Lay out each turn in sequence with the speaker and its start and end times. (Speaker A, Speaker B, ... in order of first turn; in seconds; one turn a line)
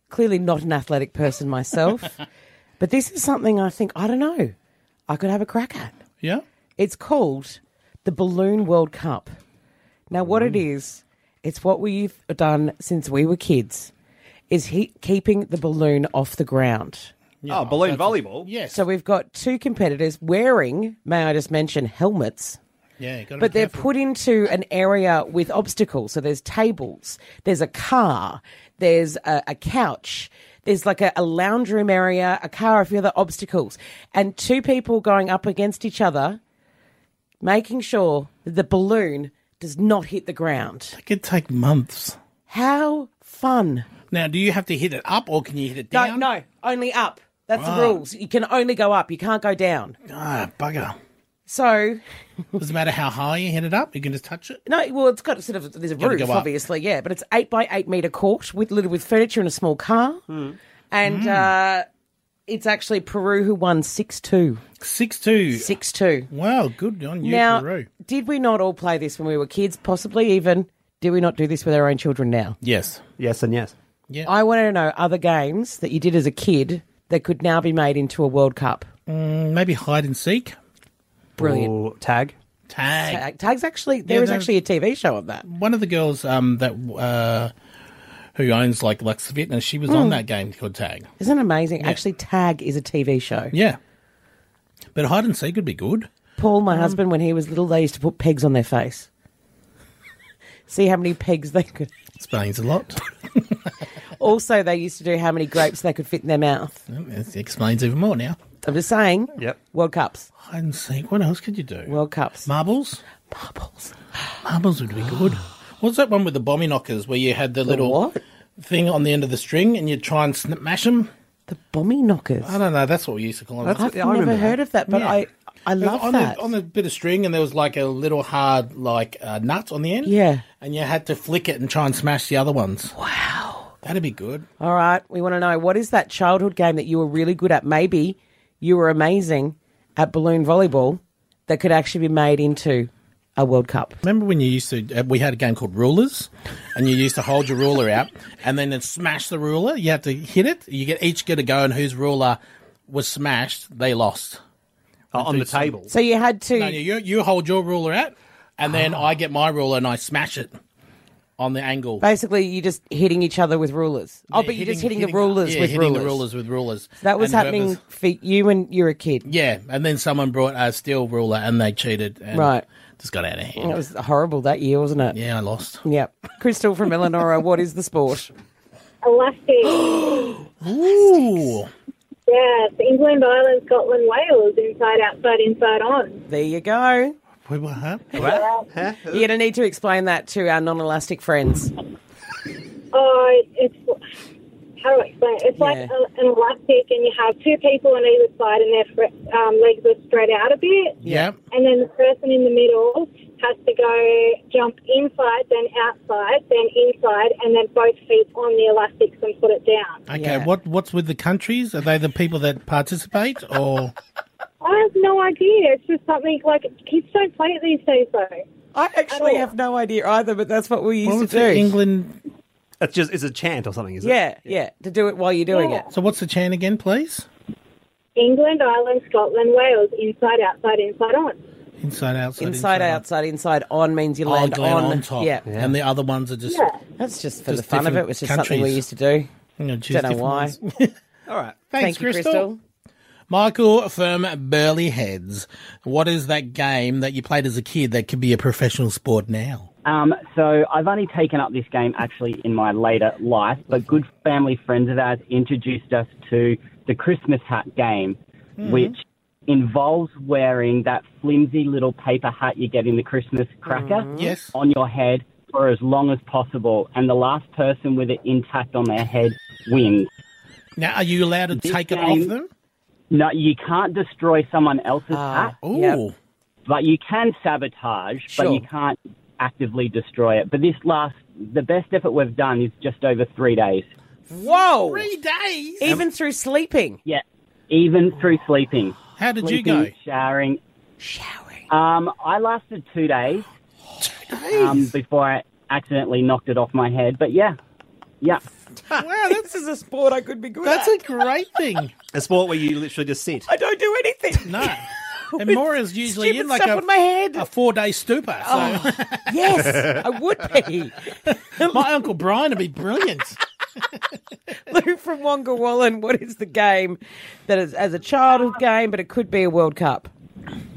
Speaker A: 0.1-2.2
Speaker A: 2.8-4.5
Speaker A: 5.1-5.9
Speaker A: 6.8-9.3
Speaker A: 10.1-13.9
Speaker A: 14.5-17.1
Speaker B: 17.4-18.8
Speaker C: 17.5-18.5
Speaker A: 18.7-22.6
Speaker B: 23.0-23.9
Speaker A: 23.4-36.4
Speaker A: 37.4-41.0
Speaker B: 40.9-42.2
Speaker A: 42.5-43.9
Speaker B: 44.1-46.3
Speaker A: 45.9-50.0
Speaker B: 47.6-48.0
Speaker B: 50.1-51.0
Speaker A: 51.5-52.0
Speaker B: 52.6-54.6
Speaker A: 54.6-60.2
Speaker B: 56.0-56.5
Speaker C: 60.3-60.5
Speaker A: 60.9-61.9
Speaker B: 61.0-61.5
Speaker A: 62.5-64.6
Speaker B: 64.8-65.8
Speaker A: 65.5-66.3
Speaker B: 66.3-67.9
Speaker A: 67.2-72.6
Speaker B: 72.6-73.0
Speaker C: 73.2-73.7
Speaker A: 74.2-78.9
Speaker B: 79.1-80.5
Speaker C: 81.4-82.3
Speaker A: 81.4-81.7
Speaker B: 82.7-83.2
Speaker A: 83.0-85.4
Speaker B: 84.0-84.5
Speaker B: 85.4-87.5
Speaker B: 88.3-91.1
Speaker A: 89.9-90.2
Speaker A: 91.2-93.5
Speaker B: 93.5-93.8
Speaker B: 94.9-96.1
Speaker A: 96.4-99.1
Speaker B: 96.7-97.0
Speaker A: 100.7-101.9
Speaker B: 102.2-103.0
Speaker A: 104.2-106.8
Speaker B: 106.9-108.3
Speaker A: 108.6-110.3
Speaker B: 110.4-113.0
Speaker A: 111.9-112.5
Speaker A: 113.3-113.9
Speaker B: 114.4-118.0
Speaker A: 117.7-118.2
Speaker B: 118.6-121.1
Speaker A: 121.5-122.5
Speaker B: 122.4-123.8
Speaker C: 123.6-124.5
Speaker A: 123.8-126.4
Speaker B: 124.9-125.2
Speaker B: 125.8-132.9
Speaker A: 130.0-130.4
Speaker A: 133.0-133.7
Speaker B: 133.8-134.4
Speaker A: 134.6-144.0
Speaker B: 144.0-154.4
Speaker C: 155.1-155.9
Speaker B: 155.1-155.7
Speaker A: 155.9-156.8
Speaker B: 156.5-160.5
Speaker B: 161.4-162.0
Speaker A: 162.0-166.2
Speaker B: 164.3-167.8
Speaker A: 167.0-169.3
Speaker B: 169.2-173.8
Speaker A: 172.3-172.6
Speaker A: 173.6-175.2
Speaker B: 175.1-175.8
Speaker A: 175.8-178.3
Speaker D: 179.0-180.4
Speaker B: 180.6-181.7
Speaker D: 182.3-186.2
Speaker A: 186.3-187.1
Speaker B: 187.4-188.3
Speaker C: 188.1-189.3
Speaker D: 188.3-188.6
Speaker A: 189.1-191.7
Speaker D: 192.9-193.9
Speaker D: 194.8-201.0
Speaker A: 195.6-195.9
Speaker B: 201.0-201.4
Speaker D: 201.5-210.0
Speaker B: 210.1-213.9
Speaker A: 210.1-210.5
Speaker D: 214.6-218.4
Speaker A: 218.7-221.7
Speaker D: 219.1-219.5
Speaker B: 221.0-222.2
Speaker C: 222.8-224.6
Speaker A: 224.0-225.9
Speaker D: 225.5-225.8
Speaker B: 225.9-227.2
Speaker D: 228.2-231.4
Speaker B: 231.8-233.0
Speaker A: 232.4-235.4
Speaker B: 234.2-236.7
Speaker C: 235.5-235.7
Speaker D: 236.5-236.8
Speaker A: 237.0-239.3
Speaker B: 237.4-238.8
Speaker B: 239.6-240.9
Speaker A: 239.9-240.6
Speaker C: 241.3-241.6
Speaker B: 241.7-242.5
Speaker A: 241.8-242.6
Speaker B: 243.3-249.7
Speaker E: 249.8-258.9
Speaker B: 258.6-258.9
Speaker E: 259.5-270.1
Speaker A: 263.6-264.4
Speaker B: 264.1-264.6
Speaker B: 270.8-272.5
Speaker E: 271.5-272.3
Speaker E: 273.1-275.5
Speaker A: 275.1-276.0
Speaker B: 275.6-276.1
Speaker E: 276.7-283.9
Speaker A: 278.3-278.6
Speaker A: 284.3-285.1
Speaker B: 284.3-286.0
Speaker A: 285.8-287.0
Speaker E: 287.1-290.6
Speaker B: 289.2-289.9
Speaker A: 291.0-291.6
Speaker E: 291.7-293.5
Speaker B: 294.3-294.8
Speaker E: 294.5-297.6
Speaker B: 298.9-299.4
Speaker A: 299.0-301.0
Speaker B: 300.6-301.9
Speaker C: 302.1-303.5
Speaker A: 303.5-307.4
Speaker B: 304.4-309.3
Speaker A: 308.4-311.9
Speaker B: 311.3-313.4
Speaker A: 314.6-320.1